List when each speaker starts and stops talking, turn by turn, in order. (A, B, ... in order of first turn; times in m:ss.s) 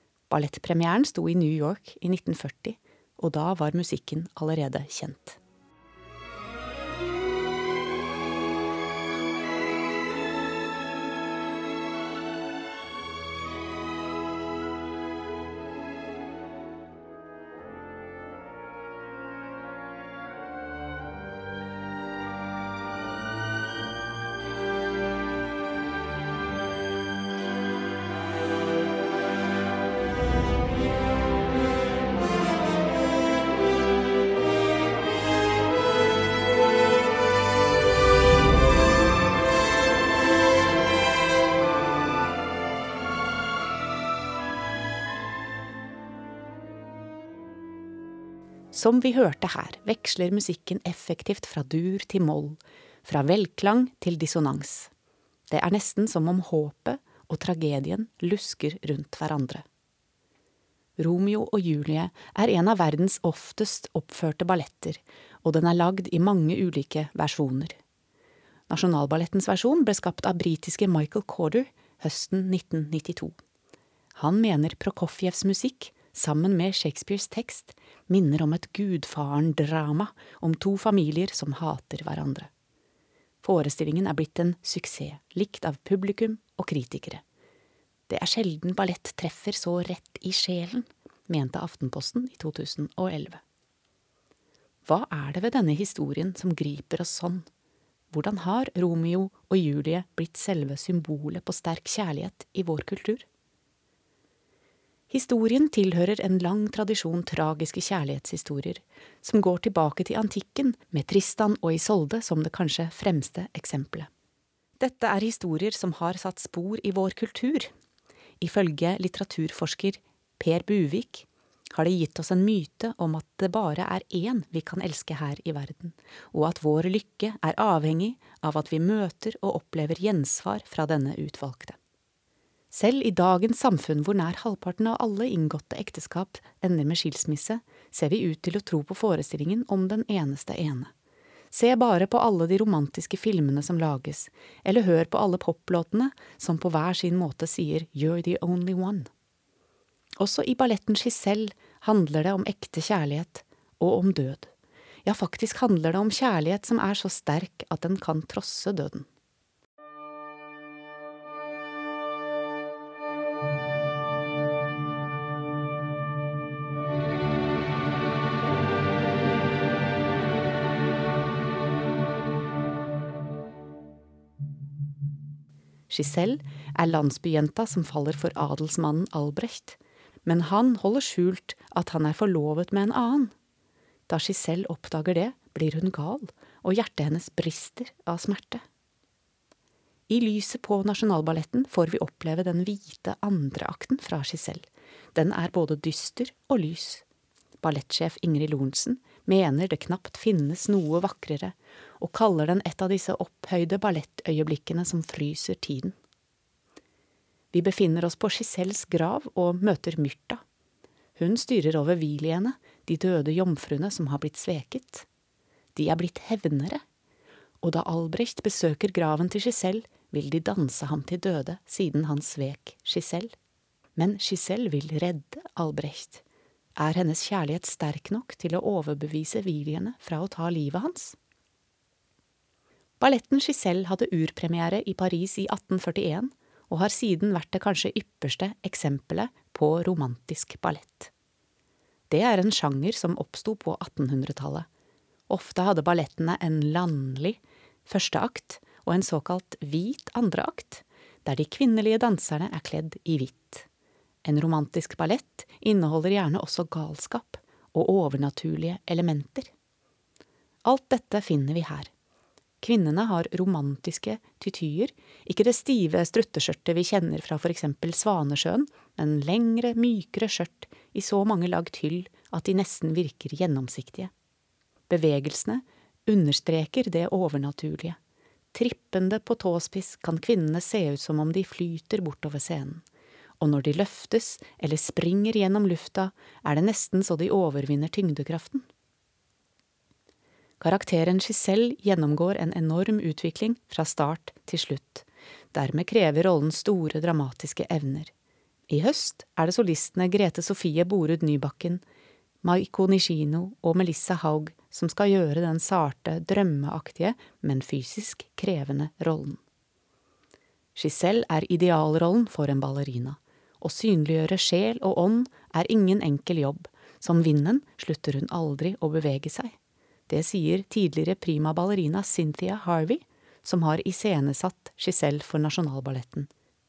0:00.3-0:05.4 A
0:48.7-0:54.9 A
0:55.5-0:59.6 A
1:01.0-1:07.8 A
1:08.7-1:13.4 A
1:14.1-1:22.5 A
1:23.4-1:27.2 A
1:28.1-1:33.4 A
1:34.8-1:37.5 A
1:38.1-1:43.2 A
1:45.1-1:54.1 A
1:54.8-1:57.7 A
1:58.4-2:11.8 A
2:12.7-2:20.9 A
2:21.5-2:29.1 A
2:30.2-2:34.5 A
2:35.0-2:39.1 A
2:55.9-3:03.3 A
3:04.1-3:08.6 A
3:10.1-3:17.0 A
3:17.6-3:26.0 A
3:27.5-3:30.4 A
3:31.2-3:35.0 A
3:35.7-3:36.8 A
3:37.6-3:43.3 A
3:44.0-3:46.2 A
3:46.8-3:51.2 A
3:53.0-4:01.1 A
4:02.1-4:04.7 A
4:05.3-4:13.7 A
4:14.2-4:19.5 A
4:20.6-4:21.9 A
4:22.6-4:34.1 A
4:34.9-4:38.0 A
4:38.5-4:42.8 A
4:43.4-4:48.6 A
4:50.6-4:58.1 A
4:58.7-5:01.8 A
5:02.4-5:09.4 A
5:10.7-5:19.5 A
5:20.1-5:26.3 A